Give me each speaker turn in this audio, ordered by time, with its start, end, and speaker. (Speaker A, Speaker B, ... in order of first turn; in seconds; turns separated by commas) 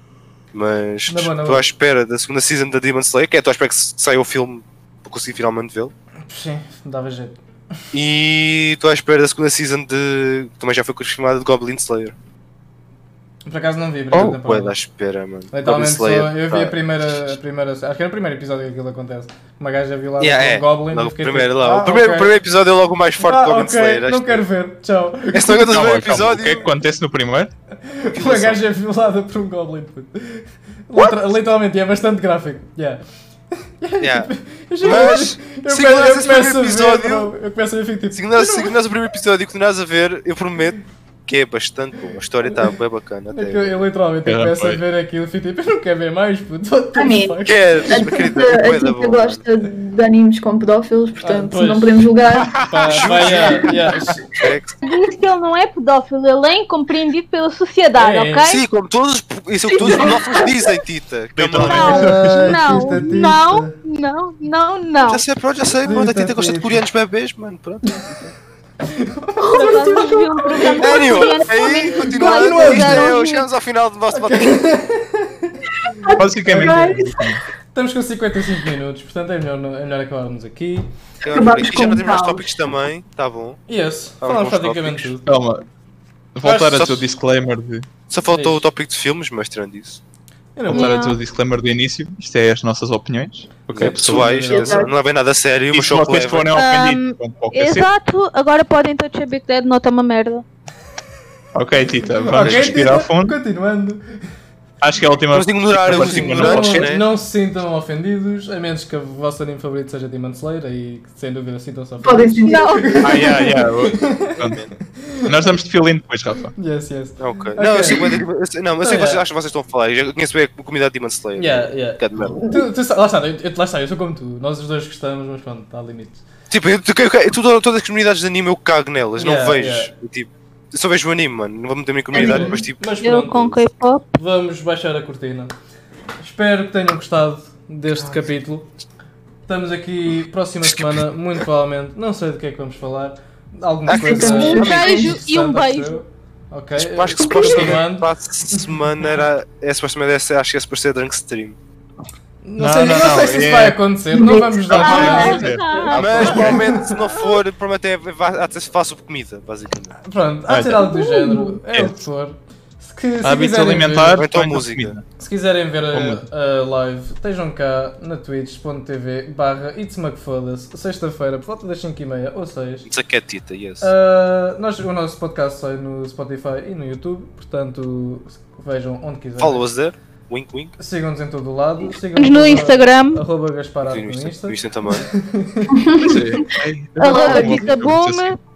Speaker A: 0.5-5.9, Speaker B: 1.1-1.6, Speaker B: 6.2-7.4, Speaker A: 7.9-12.1, Speaker B: 13.4-14.8, Speaker C: 14.1-14.4, Speaker A: 14.3-16.7, Speaker B: 15.5-22.3, Speaker A: 20.2-24.4, Speaker B: 23.2-25.8, Speaker A: 25.3-26.7, Speaker C: 25.7-27.5, Speaker B: 27.8-33.0, Speaker A: 28.1-28.6, Speaker B: 33.6-38.7, Speaker A: 34.0-34.3, Speaker A: 34.8-37.3, Speaker A: 38.1-43.8, Speaker B: 43.3-48.0, Speaker C: 44.2-44.8, Speaker D: 47.0-52.6, Speaker A: 47.4-49.4, Speaker B: 51.2-54.3, Speaker C: 52.4-52.8, Speaker A: 52.8-53.9, Speaker A: 54.4-54.8, Speaker E: 54.8-58.6, Speaker B: 58.0-58.5, Speaker A: 58.4-62.0, Speaker D: 59.8-60.4, Speaker C: 61.4-63.1, Speaker E: 61.6-65.2, Speaker B: 61.7-63.7, Speaker A: 65.0-68.1, Speaker B: 65.8-66.8, Speaker B: 67.8-68.1, Speaker B: 68.8-69.9, Speaker D: 69.4-71.1, Speaker E: 69.5-73.5, Speaker B: 70.5-70.8, Speaker A: 70.8-74.7, Speaker B: 72.0-73.1, Speaker B: 74.1-77.0, Speaker D: 75.9-77.2, Speaker C: 76.2-77.4, Speaker B: 77.7-80.9, Speaker A: 81.2-83.6, Speaker D: 81.2-82.6, Speaker B: 83.7-85.4, Speaker A: 84.2-85.1, Speaker C: 85.2-85.6, Speaker C: 86.3-87.9, Speaker B: 86.4-87.1, Speaker A: 88.1-90.0, Speaker B: 88.3-88.6, Speaker B: 90.5-91.1, Speaker C: 90.7-94.8, Speaker E: 90.7-91.2, Speaker A: 93.7-96.6, Speaker B: 93.8-94.9, Speaker D: 94.3-94.9, Speaker C: 95.7-97.9, Speaker E: 96.5-100.4, Speaker C: 101.5-103.3, Speaker B: 102.2-104.2, Speaker A: 102.3-102.9, Speaker C: 104.8-106.9, Speaker A: 105.3-107.0, Speaker B: 105.9-115.3, Speaker D: 112.0-113.2, Speaker E: 112.4-113.2, Speaker C: 113.0-114.6, Speaker C: 115.2-116.5, Speaker B: 116.6-118.2, Speaker A: 117.2-122.4, Speaker B: 118.8-119.2, Speaker B: 121.3-126.2, Speaker A: 126.5-132.8, Speaker B: 129.2-129.9, Speaker D: 132.1-132.6, Speaker B: 132.1-133.6, Speaker E: 133.0-134.0, Speaker B: 134.1-135.5, Speaker B: 136.2-138.7, Speaker B: 139.5-148.6, Speaker D: 143.9-145.1, Speaker A: 143.9-144.7, Speaker E: 144.1-146.0, Speaker A: 146.8-151.6, Speaker D: 147.2-147.8, Speaker B: 152.4-156.9, Speaker C: 152.6-153.8, Speaker D: 154.1-155.4, Speaker C: 154.7-156.6, Speaker E: 154.7-157.0, Speaker A: 155.9-160.0, Speaker B: 160.0-164.3, Speaker C: 160.5-160.8, Speaker D: 160.9-161.5, Speaker C: 161.7-162.0, Speaker C: 163.2-165.0, Speaker A: 164.1-165.0, Speaker B: 165.2-172.9, Speaker C: 165.9-166.2, Speaker A: 172.8-173.9, Speaker B: 173.8-179.7, Speaker A: 179.4-180.7, Speaker B: 180.8-185.9, Speaker E: 182.2-183.2, Speaker A: 183.8-185.1, Speaker D: 185.7-186.4, Speaker C: 186.0-188.3, Speaker E: 187.0-188.4, Speaker D: 187.0-187.8